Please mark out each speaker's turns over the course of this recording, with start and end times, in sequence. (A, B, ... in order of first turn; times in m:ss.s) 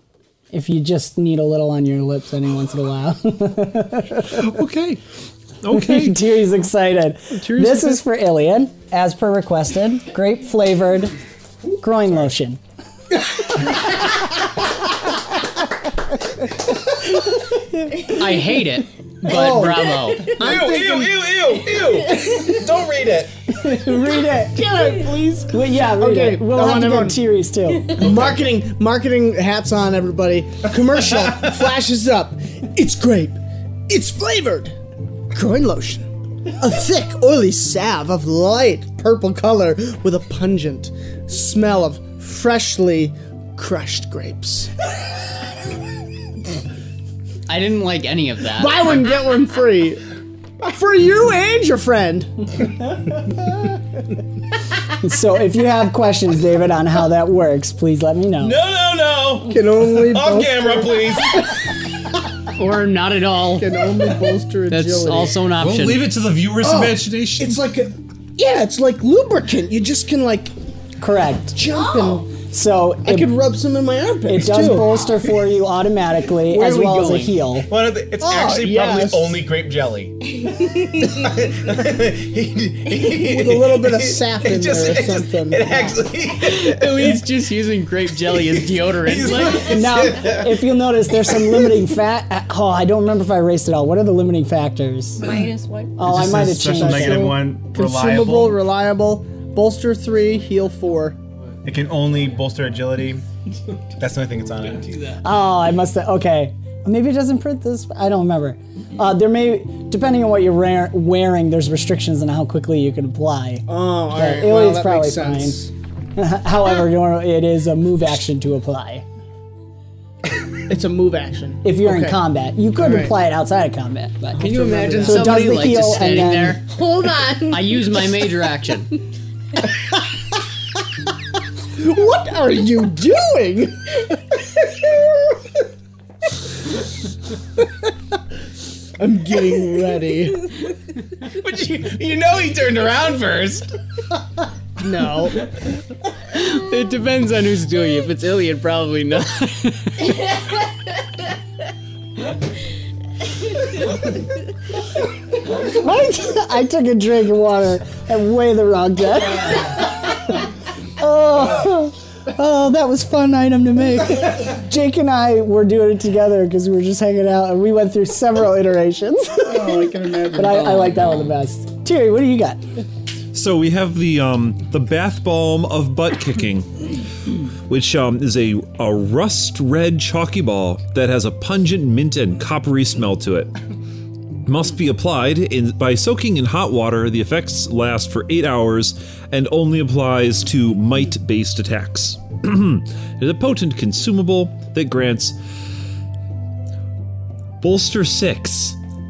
0:00.5-0:04.6 A
0:04.2-0:05.0 B
0:05.6-0:06.2 B
0:05.7-0:11.2 A
0:07.3-0:08.0 B
0:11.8-0:12.6 A
0:18.0-0:20.4 C
0:19.2-0:21.3 D
0:20.2-0:23.3 E
0:23.6-0:24.8 A
0:24.4-0:27.2 D
0:25.5-0:28.0 A
0:27.9-0:34.8 D
0:35.3-0:36.1 D
0:36.6-0:44.7 D
0:47.5-0:49.0 C
0:48.5-0:50.0 D
0:50.6-0:52.5 D
0:55.0-0:58.6 A
0:58.4-1:01.5 E
0:59.0-0:59.4 B
0:59.4-1:01.3 D
1:02.5-1:03.9 C
1:03.5-1:05.4 D
1:04.7-1:06.1 C
1:05.6-1:07.6 B
1:06.5-1:10.5 D
1:11.0-1:11.6 A
1:11.5-1:12.3 D
1:12.3-1:13.3 A
1:13.0-1:15.0 D
1:14.3-1:17.7 A
1:16.4-1:17.5 D
1:17.6-1:27.2 E
1:18.2-1:19.4 D
1:23.2-1:25.9 D
1:26.3-1:29.9 C
1:28.3-1:30.7 E
1:29.6-1:35.3 A
1:31.4-1:31.7 E
1:35.2-1:36.0 F
1:36.0-1:37.4 A
1:36.0-1:38.6 E
1:36.7-1:41.2 D
1:41.6-1:43.2 E
1:44.0-1:45.2 E
1:45.2-1:55.6 A
1:53.7-1:55.7 D
1:56.2-1:59.0 A
2:00.6-2:02.2 D
2:01.6-2:04.5 A
2:02.8-2:03.1 D
2:04.4-2:05.7 D
2:04.4-2:06.6 C
2:05.0-2:06.6 A
2:06.6-2:08.0 F
2:07.5-2:08.9 C
2:11.8-2:15.4 D
2:19.0-2:20.5 D
2:21.3-2:23.8 E
2:24.8-2:25.4 D
2:26.3-2:30.1 C
2:35.6-2:40.5 A
2:41.0-2:52.6 A
2:49.4-2:51.0 D
2:53.3-2:56.9 B
2:57.6-3:03.5 B
3:04.4-3:15.4 B
3:17.6-3:18.8 B